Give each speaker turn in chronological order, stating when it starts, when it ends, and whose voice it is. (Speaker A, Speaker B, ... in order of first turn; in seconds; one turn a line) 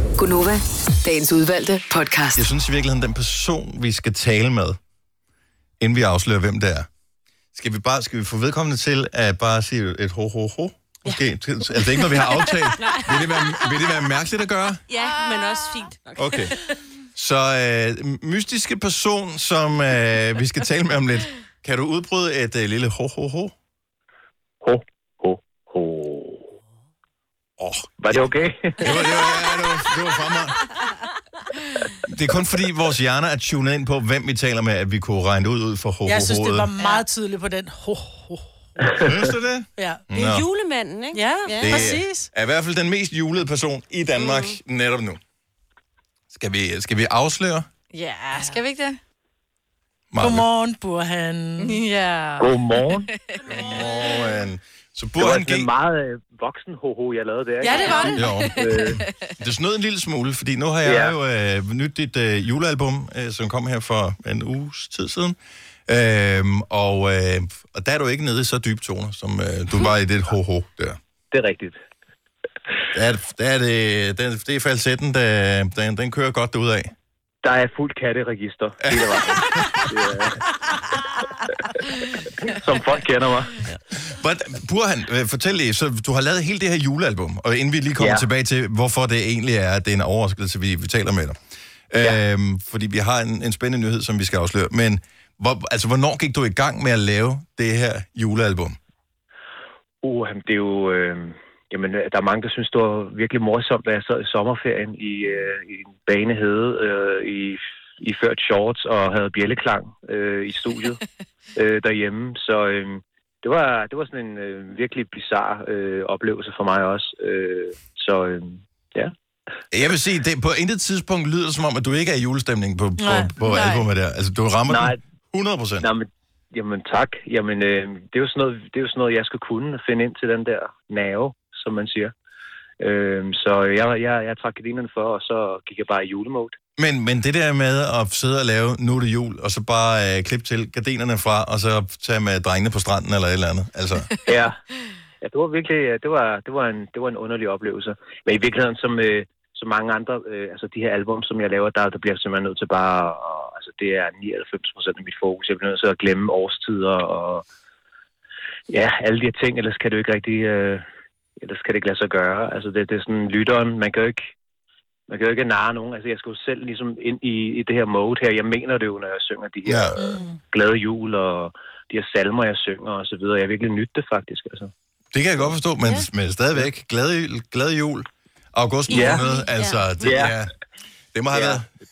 Speaker A: 0.2-2.5
Speaker B: 2.3-4.8
Speaker B: 5.8-6.9
Speaker B: 7.5-14.8
Speaker C: 11.8-12.4
Speaker D: 12.8-13.8
Speaker D: 14.9-16.6
Speaker B: 16.2-16.5
Speaker B: 17.1-23.5
Speaker E: 24.6-26.5
Speaker B: 27.6-28.2
Speaker E: 28.0-28.9
Speaker B: 28.8-30.6
Speaker B: 32.0-36.7
Speaker C: 36.0-39.0
Speaker B: 39.0-40.4
Speaker C: 39.8-40.0
Speaker D: 40.1-41.9
Speaker C: 41.1-42.3
Speaker B: 41.6-45.2
Speaker B: 46.3-47.7
Speaker F: 47.9-49.0
Speaker C: 48.3-48.6
Speaker B: 50.1-50.5
Speaker C: 50.2-51.8
Speaker F: 51.6-53.9
Speaker E: 52.4-53.1
Speaker B: 53.5-55.7
Speaker E: 55.2-59.0
Speaker C: 57.6-58.2
Speaker F: 57.6-59.3
Speaker B: 58.1-65.3
Speaker E: 60.8-61.1
Speaker B: 65.9-71.0
Speaker E: 71.3-71.8
Speaker B: 72.9-76.9
Speaker E: 77.4-80.4
Speaker B: 78.8-79.8
Speaker E: 82.4-83.6
Speaker B: 84.0-91.4
Speaker E: 88.0-88.2
Speaker B: 91.9-98.8
Speaker E: 100.0-111.0
Speaker E: 111.5-119.1
Speaker B: 119.7-125.9
Speaker C: 123.0-123.3
Speaker F: 123.4-123.8
Speaker E: 124.7-125.0
Speaker E: 125.8-132.1
Speaker E: 132.8-136.6
Speaker B: 136.8-144.1
Speaker E: 144.2-144.6
Speaker E: 145.2-157.4
Speaker E: 158.7-160.8
Speaker E: 161.4-164.3
Speaker E: 165.1-174.7
Speaker B: 169.6-170.0
Speaker C: 170.0-170.4
Speaker B: 175.1-180.5
Speaker E: 178.9-179.2
Speaker D: 179.1-179.9
Speaker E: 180.0-180.4
Speaker B: 181.1-181.7
Speaker E: 181.3-181.6